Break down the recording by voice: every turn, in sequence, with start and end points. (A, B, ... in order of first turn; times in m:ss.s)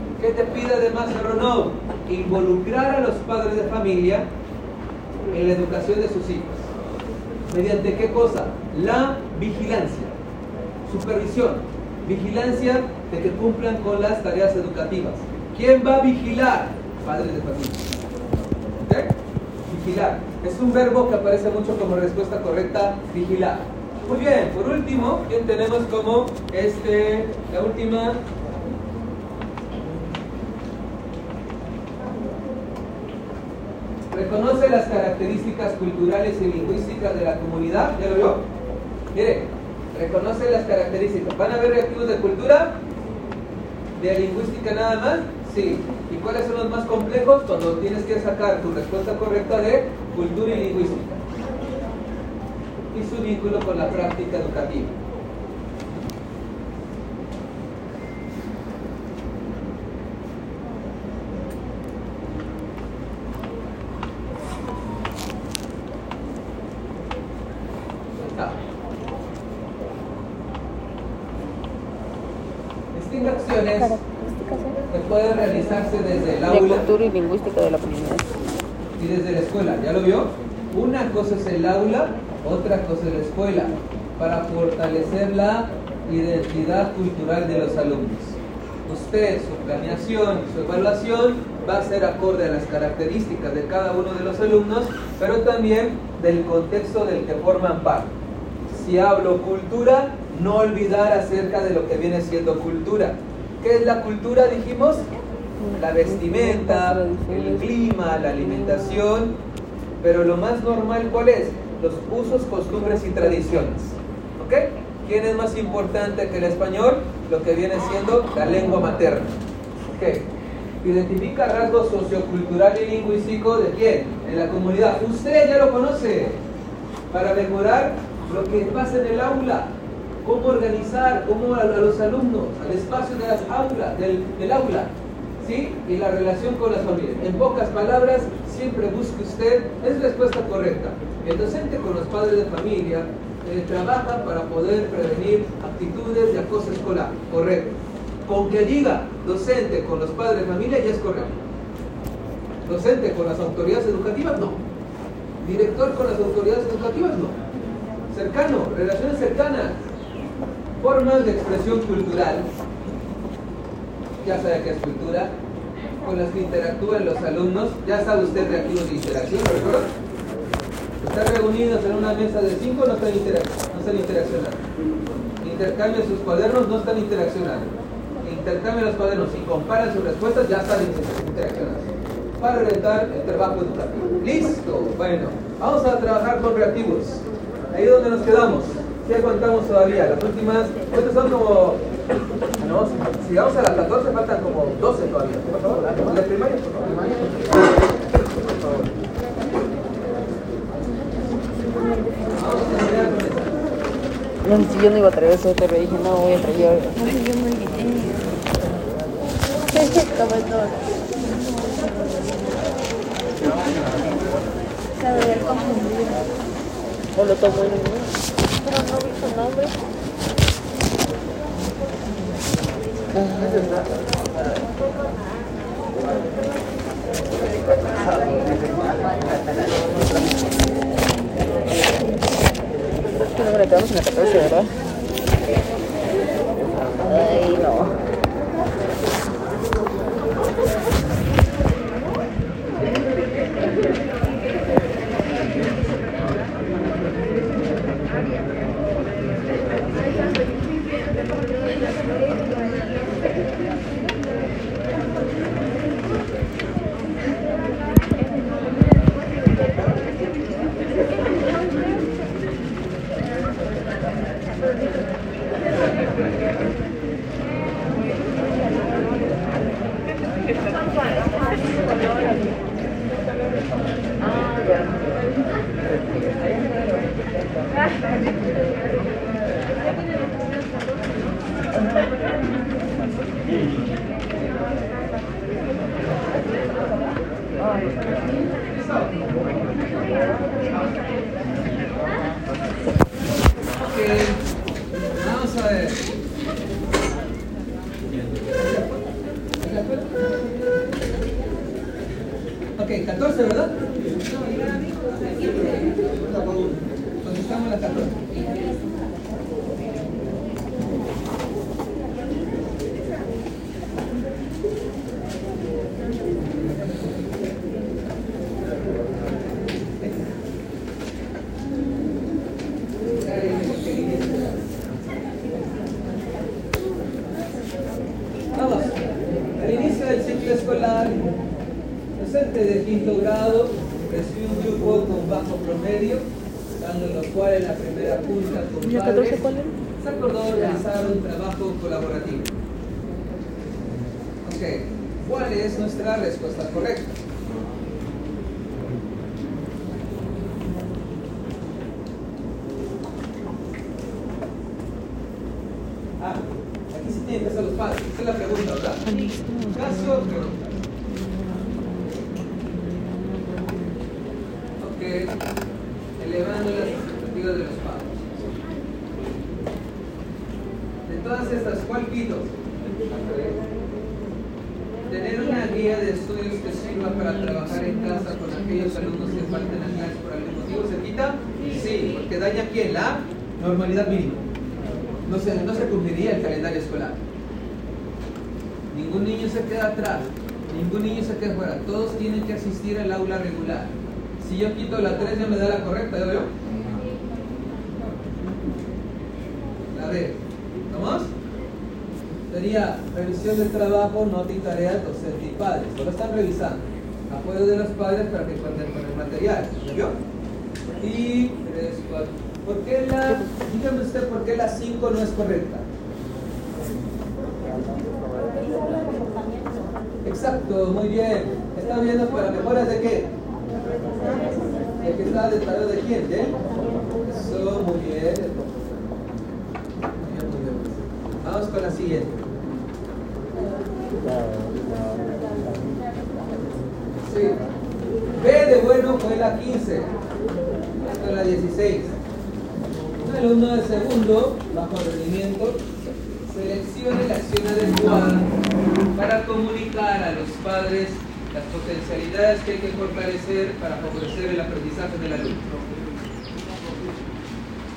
0:00.2-0:04.3 A
0:05.3-0:06.7 A
0:07.5-0:10.1 A
0:10.9-0:17.8 A
0:18.8-0:19.1 A
0:19.7-0:28.2 A
0:34.1-0:38.5 A
0:39.1-0:42.8 A
0:44.0-0:51.2 A
0:52.9-0:54.9 A
1:12.9-1:14.0 A
1:13.7-1:14.8 B
1:14.9-1:16.9 A
1:16.5-1:18.3 C
1:19.0-1:38.1 A
1:38.7-1:45.1 A
1:45.6-1:49.1 C
1:45.8-1:49.4 A
1:50.0-1:59.4 A
1:53.3-1:53.7 C
1:59.9-2:00.3 A
2:00.8-2:06.4 A
2:07.1-2:09.7 A
2:10.2-2:31.3 A
2:32.6-2:34.6 A
2:35.4-2:37.4 A
2:38.1-2:39.8 A
2:40.8-2:42.5 A
2:44.2-2:45.4 A
2:46.0-2:49.9 A
2:51.0-2:54.6 A
2:55.4-2:57.7 A
2:58.2-3:01.9 A
3:02.4-3:11.8 A
3:12.6-3:17.0 A
3:16.9-3:17.2 C
3:21.4-3:22.1 B
3:22.3-3:23.5 A
3:24.4-3:27.1 C
3:27.0-3:28.4 B
3:29.7-3:30.8 C
3:31.2-3:32.1 B
3:35.0-3:36.3 B
3:37.2-3:38.2 C
3:43.2-3:43.7 C
3:53.2-3:54.8 C
3:57.0-3:58.0 C
4:48.7-4:49.2 A
4:53.8-4:54.4 A
4:54.9-4:56.0 A
4:58.6-4:58.9 A
4:59.6-5:00.1 A
5:02.8-5:04.4 A
5:07.2-5:08.6 A
5:23.2-5:24.6 A
5:28.6-5:29.0 A
5:29.6-5:31.2 A
5:32.2-5:36.2 A
5:36.8-5:42.5 A
5:38.9-5:39.7 C
5:39.1-5:39.7 B
5:40.5-5:40.9 C
5:44.4-5:47.2 A
5:56.2-5:59.0 A
5:59.1-6:04.0 C
5:59.7-6:00.6 A
6:04.8-6:05.3 A
6:06.2-6:08.2 A
6:11.1-6:12.5 A
6:15.1-6:24.4 A
6:17.0-6:20.0 C
6:25.2-6:27.2 A
6:28.9-6:36.5 A
6:39.9-6:40.4 A
6:40.9-6:41.3 A
6:42.5-6:50.2 A
6:51.0-6:55.8 A
6:53.3-6:53.6 C
7:00.2-7:03.3 A
7:05.0-7:06.6 A
7:07.3-7:08.6 A
7:10.2-7:12.4 A
7:17.3-7:17.6 A
7:18.4-7:20.1 A
7:21.0-7:22.2 A
7:23.2-7:25.8 A
7:26.5-7:28.5 A
7:29.2-7:35.6 A